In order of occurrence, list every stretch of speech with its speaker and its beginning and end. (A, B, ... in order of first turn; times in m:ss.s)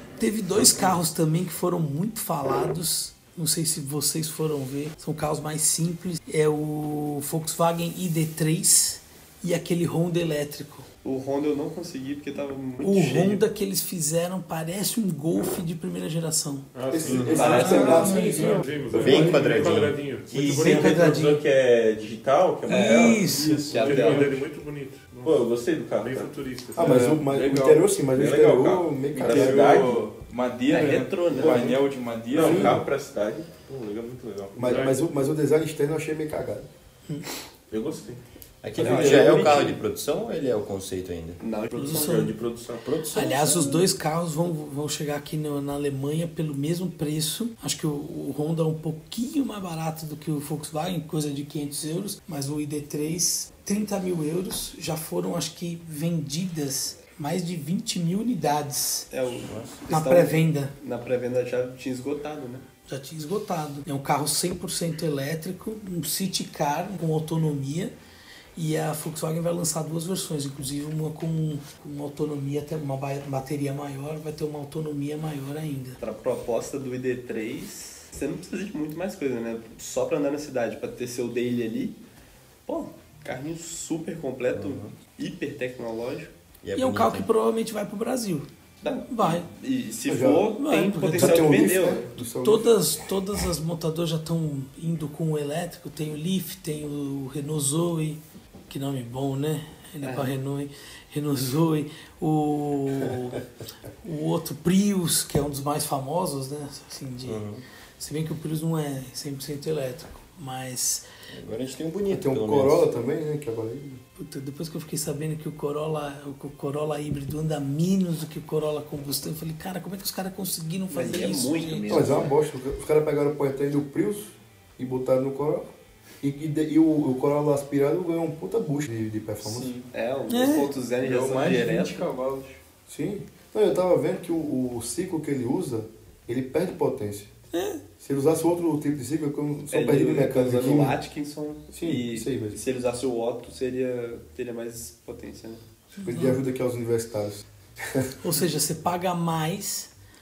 0:00.2-0:10.9 A
0:11.0-0:13.4 B
0:12.8-0:16.7 A
0:16.7-0:21.3 C
0:16.9-0:19.0 D
0:17.1-0:17.6 E
0:17.1-0:18.1 F
0:17.3-0:18.1 B
0:17.4-0:18.1 A
0:17.8-0:18.6 G
0:18.9-0:23.3 F
0:19.0-0:20.7 E
0:20.3-0:21.4 A
0:22.7-0:23.7 A
0:22.7-0:24.4 B
0:23.2-0:24.3 G
0:23.6-0:25.5 C
0:25.2-0:26.3 F
0:26.0-0:27.1 C
0:26.7-0:29.9 D
0:26.8-0:27.9 G
0:28.1-0:30.1 F
0:29.1-0:32.8 G
0:30.7-0:31.7 B
0:31.4-0:34.9 F
0:32.3-0:32.8 D
0:34.5-0:35.0 C
0:34.6-0:36.7 D
0:37.7-0:38.2 F
0:38.6-0:41.4 E
0:38.8-0:39.7 F
0:38.8-0:39.7 B
0:41.4-0:42.3 B
0:41.8-0:42.3 A
0:41.9-0:42.9 F
0:42.8-0:43.8 E
0:43.1-0:59.1 A
0:59.1-1:02.6 B
0:59.4-0:59.8 E
0:59.9-1:00.7 A
1:02.9-1:07.9 A
1:08.6-1:16.0 A
1:16.0-1:22.0 B
1:22.6-1:26.3 B
1:24.5-1:24.9 E
1:26.6-1:27.3 E
1:26.8-1:28.5 A
1:28.8-1:32.1 B
1:29.1-1:29.5 A
1:30.0-1:30.5 D
1:30.6-1:31.7 A
1:31.1-1:32.7 D
1:32.2-1:43.4 A
1:40.0-1:40.3 B
1:44.0-1:47.4 A
1:47.2-1:47.6 E
1:48.0-1:51.0 A
1:51.3-1:52.9 E
1:52.1-1:54.0 D
1:54.2-2:02.1 A
2:00.9-2:02.3 B
2:01.9-2:05.7 D
2:06.2-2:09.7 D
2:09.4-2:09.9 G
2:09.9-2:12.0 B
2:10.3-2:10.7 A
2:11.0-2:12.6 G
2:12.9-2:17.3 D
2:17.5-2:17.8 A
2:18.0-2:21.0 D
2:19.7-2:25.6 B
2:21.7-2:22.6 D
2:26.0-2:28.1 D
2:26.0-2:26.3 A
2:28.2-2:29.9 A